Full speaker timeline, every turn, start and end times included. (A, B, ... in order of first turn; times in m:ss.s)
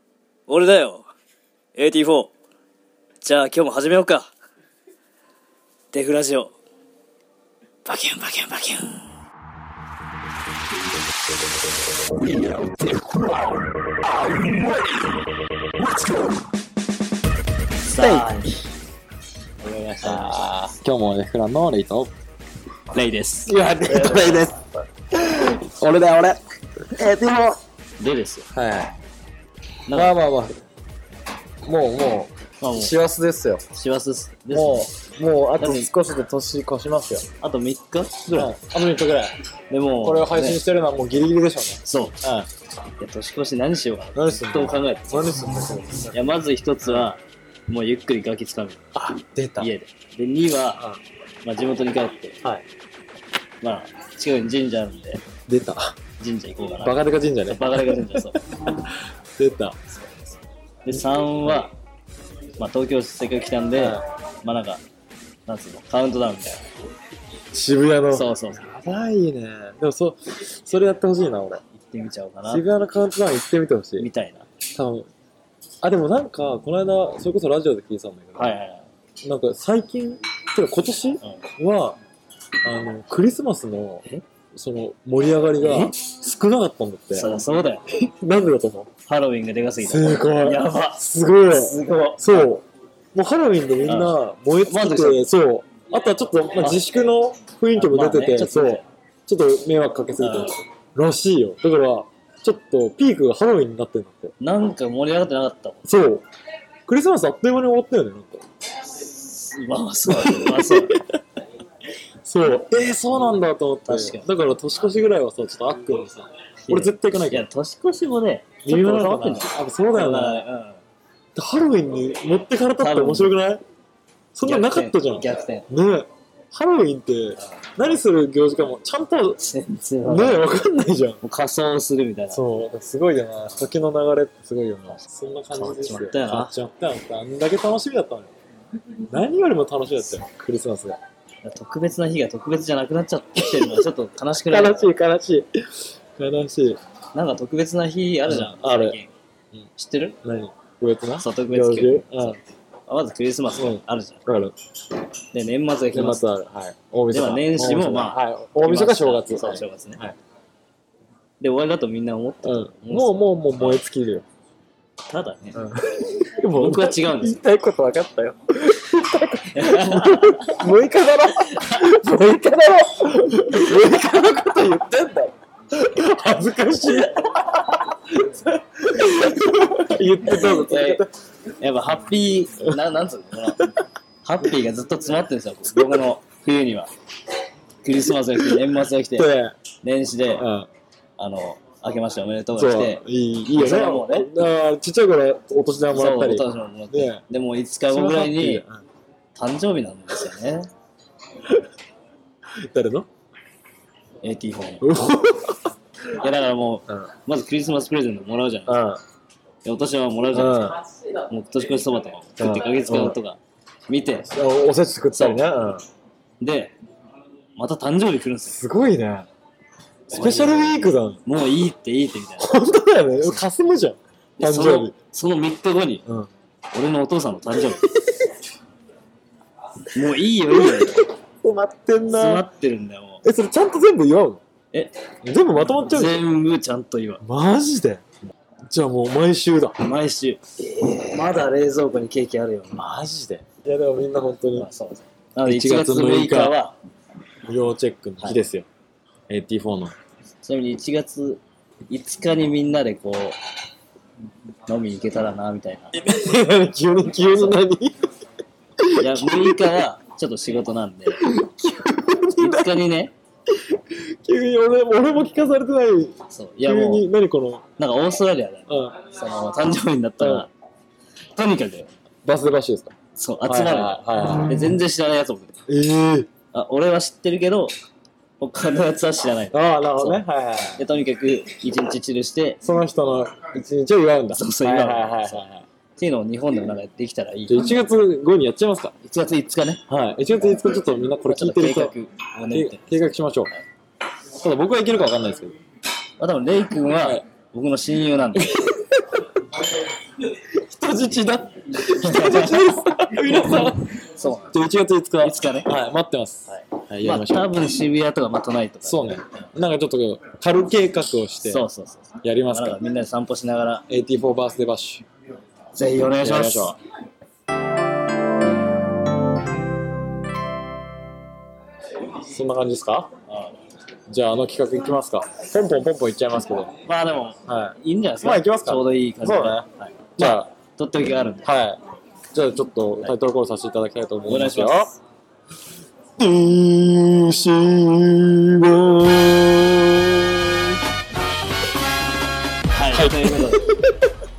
0:00.5-0:01.1 A
0:01.8-0:02.3 A
0:03.2-0:04.3 A
0:05.9-0:06.6 A
0:07.8-0:09.1 A
0:17.8-0:18.6 A
0:17.9-0:18.5 B
0:19.6-0:20.5 A
0:20.0-0:22.1 B
0:22.9-0:24.6 A
0:23.5-0:24.6 B
0:25.1-0:27.6 B
0:28.0-0:28.5 A
0:28.5-0:29.0 B
0:29.9-0:30.1 A
0:29.9-0:30.6 B
0:31.6-0:33.6 B
0:32.6-0:32.9 A
0:33.7-0:34.9 A
0:34.5-0:37.2 B
0:35.6-0:35.9 A
0:37.4-0:38.5 A
0:38.3-0:39.3 B
0:39.7-0:40.6 A
0:40.0-0:42.5 B
0:41.8-0:42.2 A
0:43.0-0:45.2 A
0:44.2-0:46.2 B
0:46.1-0:48.8 A
0:49.0-0:49.7 B
0:49.6-0:50.8 A
0:51.4-0:52.4 A
0:53.6-0:55.2 A
0:55.5-0:56.0 B
0:56.2-0:58.4 A
0:56.8-0:59.9 B
1:00.8-1:01.7 A
1:02.6-1:04.8 A
1:03.8-1:04.0 B
1:05.5-1:06.6 A
1:07.5-1:11.6 B
1:08.1-1:08.7 A
1:11.7-1:12.7 A
1:12.5-1:14.1 B
1:14.0-1:14.5 A
1:14.8-1:15.1 B
1:15.8-1:18.6 B
1:18.4-1:18.9 A
1:19.2-1:22.0 B
1:22.6-1:28.9 B
1:25.6-1:25.9 A
1:27.1-1:27.8 A
1:29.1-1:32.5 A
1:29.8-1:44.3 B
1:33.8-1:35.2 A
1:37.8-1:38.8 A
1:40.2-1:40.6 A
1:44.4-1:45.8 A
1:45.9-1:46.2 B
1:46.9-1:48.4 B
1:48.9-1:51.0 A
1:50.1-1:51.2 B
1:52.2-1:57.5 B
1:53.9-1:54.3 A
1:56.6-2:00.8 A
1:58.6-2:00.4 B
2:01.4-2:03.6 B
2:02.8-2:03.3 A
2:04.3-2:09.4 B
2:04.4-2:05.7 A
2:09.4-2:10.5 A
2:10.0-2:11.2 B
2:11.2-2:12.4 A
2:12.3-2:18.3 B
2:15.5-2:16.5 A
2:19.1-2:21.0 B
2:21.4-2:25.0 A
2:23.4-2:23.8 B
2:24.4-2:25.5 B
2:26.2-2:26.8 B
2:27.1-2:29.1 A
2:28.3-2:29.0 B
2:29.8-2:30.2 A
2:30.2-2:32.4 B
2:31.2-2:34.2 A
2:33.6-2:34.5 B
2:35.3-2:36.3 A
2:35.9-2:40.2 B
2:37.1-2:40.0 A
2:41.4-2:43.8 A
2:42.4-2:44.2 B
2:45.1-2:45.6 A
2:45.6-3:01.1 B
2:46.6-2:47.4 A
2:49.5-2:50.6 A
2:51.4-2:51.8 A
3:00.2-3:01.0 A
3:01.6-3:03.7 A
3:04.2-3:06.9 A
3:07.8-3:09.3 A
3:09.2-3:09.5 B
3:09.8-3:10.5 A
3:10.4-3:10.7 B
3:11.2-3:14.3 A
3:12.6-3:17.2 B
3:15.9-3:18.6 A
3:17.9-3:18.8 B
3:19.4-3:20.7 A
3:22.6-3:23.1 B
3:24.2-3:24.9 A
3:24.8-3:25.7 B
3:26.2-3:28.9 A
3:28.7-3:29.0 B
3:29.6-3:34.3 A
3:30.3-3:30.8 B
3:32.4-3:33.2 B
3:34.3-3:35.8 B
3:35.1-3:35.4 A
3:36.4-3:36.8 A
3:37.6-3:38.6 A
3:38.5-3:39.3 B
3:40.1-3:41.2 B
3:40.1-3:42.5 A
3:42.4-3:44.9 B
3:44.4-3:46.0 A
3:46.7-3:47.9 A
3:49.9-3:51.1 A
3:50.4-3:52.5 B
3:52.1-3:53.2 A
3:53.2-3:54.4 B
3:55.2-3:56.2 B
3:55.8-3:57.2 A
3:57.2-3:58.0 B
3:58.7-3:59.8 B
3:59.8-4:02.8 A
4:02.7-4:04.7 B
4:04.6-4:06.8 A
4:05.4-4:06.6 B
4:07.4-4:08.7 B
4:09.3-4:10.0 B
4:10.4-4:13.4 A
4:14.7-4:16.0 A
4:16.0-4:18.1 B
4:17.3-4:17.6 A
4:18.8-4:19.8 B
4:19.0-4:21.3 A
4:21.1-4:22.8 B
4:22.4-4:23.1 A
4:23.5-4:27.6 B
4:26.3-4:27.1 A
4:27.8-4:30.5 A
4:28.7-4:29.0 B
4:30.2-4:30.5 B
4:31.4-4:31.9 A
4:32.2-4:32.9 B
4:33.2-4:35.5 A
4:33.4-4:34.8 B
4:35.7-4:36.3 B
4:36.5-4:37.7 A
4:38.4-4:40.2 A
4:39.5-4:40.8 B
4:40.8-4:42.6 A
4:42.6-4:45.6 B
4:44.3-4:47.6 A
4:47.5-4:48.9 B
4:49.0-4:49.8 A
4:49.9-4:52.0 B
4:51.3-4:53.0 A
4:52.5-4:53.5 B
4:54.3-4:55.5 B
4:56.2-4:58.6 A
4:57.0-4:57.2 B
4:58.3-4:59.3 B
5:00.4-5:03.9 B
5:01.8-5:02.6 A
5:03.3-5:04.6 A
5:04.5-5:07.6 B
5:05.2-5:05.7 A
5:06.5-5:09.2 A
5:08.8-5:11.7 B
5:11.4-5:13.8 A
5:12.2-5:12.8 B
5:13.9-5:15.0 B
5:15.8-5:16.8 A
5:16.2-5:16.8 B
5:22.2-5:23.1 B
5:23.3-5:23.6 A
5:24.1-5:26.7 B
5:26.8-5:31.5 A
5:27.5-5:29.7 B
5:30.2-5:30.5 B
5:31.4-5:31.8 B
5:32.3-5:34.9 B
5:34.3-5:35.0 A
5:36.2-5:40.8 B
5:42.7-5:43.7 A
5:42.9-5:44.1 B